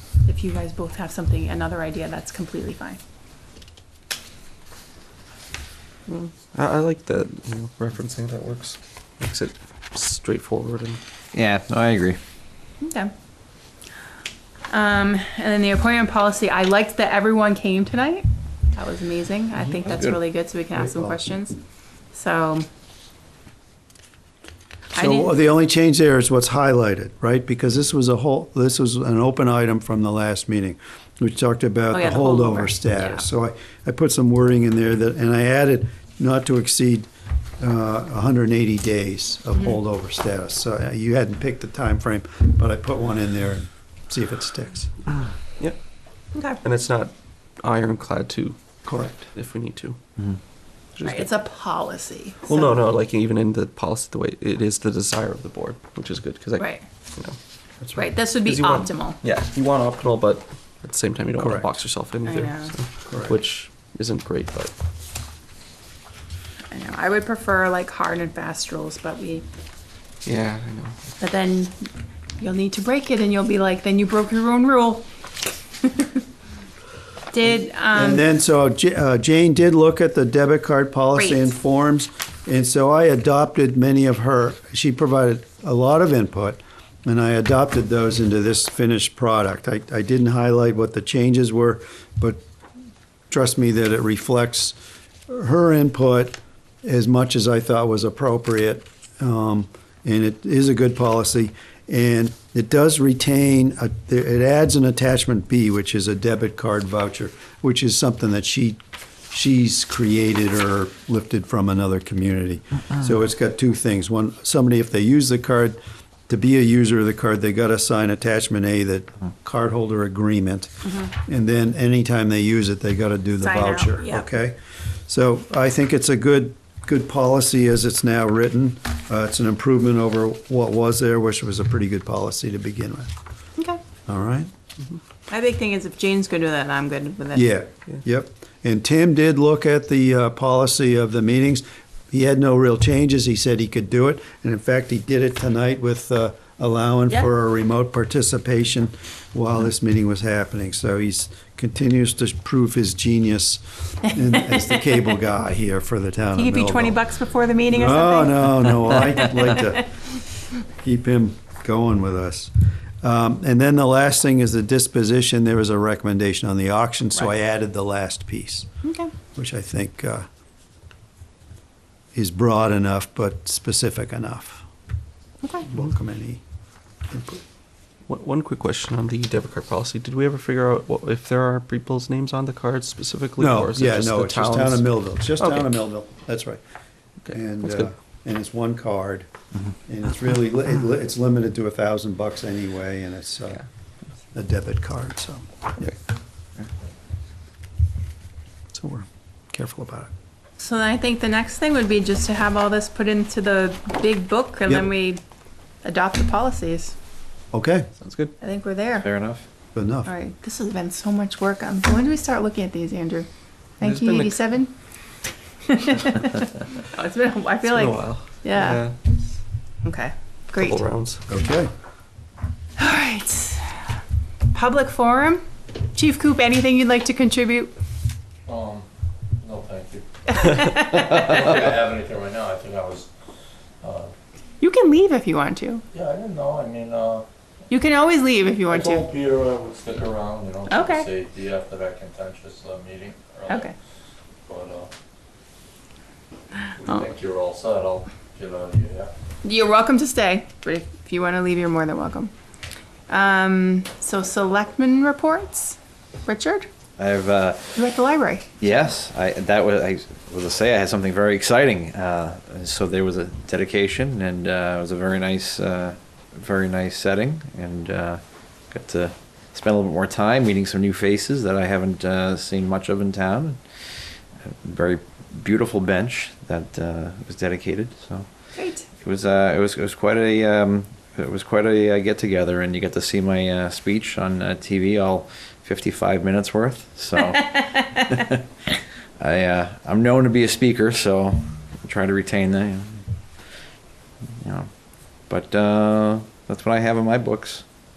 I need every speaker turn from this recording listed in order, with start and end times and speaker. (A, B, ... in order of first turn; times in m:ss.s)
0:00.2-0:03.0 A
0:06.1-0:11.0 B
0:11.3-0:12.2 C
0:12.8-0:13.1 A
0:14.7-0:21.6 A
0:19.9-0:20.2 C
0:20.8-0:21.2 D
0:22.1-0:22.7 A
0:25.0-0:25.3 A
0:25.0-0:37.1 D
0:31.9-0:33.2 A
0:37.6-0:45.0 D
0:46.3-0:46.6 A
0:46.6-0:48.6 B
0:48.8-0:49.3 D
0:49.3-0:50.0 B
0:51.0-0:51.2 B
0:51.0-0:52.7 A
0:52.4-0:57.4 B
0:56.6-0:56.8 A
0:57.8-0:58.0 D
0:58.0-0:59.2 A
0:58.4-1:04.7 B
1:01.4-1:01.7 D
1:02.2-1:02.7 A
1:03.0-1:03.4 D
1:06.7-1:09.4 A
1:10.2-1:11.0 B
1:11.2-1:15.1 A
1:15.8-1:16.2 A
1:17.3-1:18.2 A
1:17.9-1:32.4 D
1:21.2-1:21.5 A
1:33.3-1:34.8 D
1:35.3-2:13.1 D
2:00.8-2:01.1 A
2:03.4-2:04.3 A
2:14.1-2:14.5 D
2:15.3-2:17.6 A
2:17.3-2:37.0 D
2:34.3-2:34.7 A
2:36.3-2:39.6 A
2:37.7-2:39.9 D
2:40.8-2:48.7 D
2:48.8-2:49.1 A
2:49.3-2:50.2 D
2:52.1-2:54.6 D
2:55.7-2:56.4 D
2:57.1-2:57.4 D
2:58.1-3:05.7 B
3:03.4-3:06.6 D
3:07.3-3:07.9 B
3:07.3-3:09.3 D
3:09.8-3:13.6 D
3:14.3-3:16.0 D
3:18.7-3:20.1 D
3:20.6-3:25.2 A
3:25.8-3:27.0 A
3:27.5-3:27.9 D
3:28.0-3:28.3 B
3:28.4-3:29.1 A
3:29.0-3:29.4 C
3:29.7-3:30.1 D
3:30.0-3:33.3 A
3:33.8-3:34.4 B
3:33.8-3:34.7 A
3:35.6-3:38.8 A
3:37.6-3:39.0 B
3:39.8-3:40.8 A
3:40.6-3:41.2 B
3:41.3-3:41.7 D
3:42.8-3:43.9 A
3:44.5-3:47.7 A
3:48.5-3:48.9 E
3:49.4-3:50.0 E
3:50.3-3:51.2 A
3:50.6-3:53.1 E
3:53.8-3:54.1 E
3:54.6-3:55.8 A
3:55.9-3:57.2 E
3:57.7-3:59.1 A
3:58.7-4:03.7 E
4:00.7-4:01.1 A
4:03.5-4:03.7 A
4:04.4-4:04.9 E
4:06.7-4:09.1 E
4:09.4-4:12.3 A
4:13.1-4:16.7 A
4:17.0-4:17.8 C
4:17.8-4:18.5 A
4:18.6-4:38.3 C
4:38.6-4:38.9 A
4:38.9-4:53.0 C
4:47.6-4:48.2 A
4:54.4-4:54.7 C
4:55.3-4:57.6 C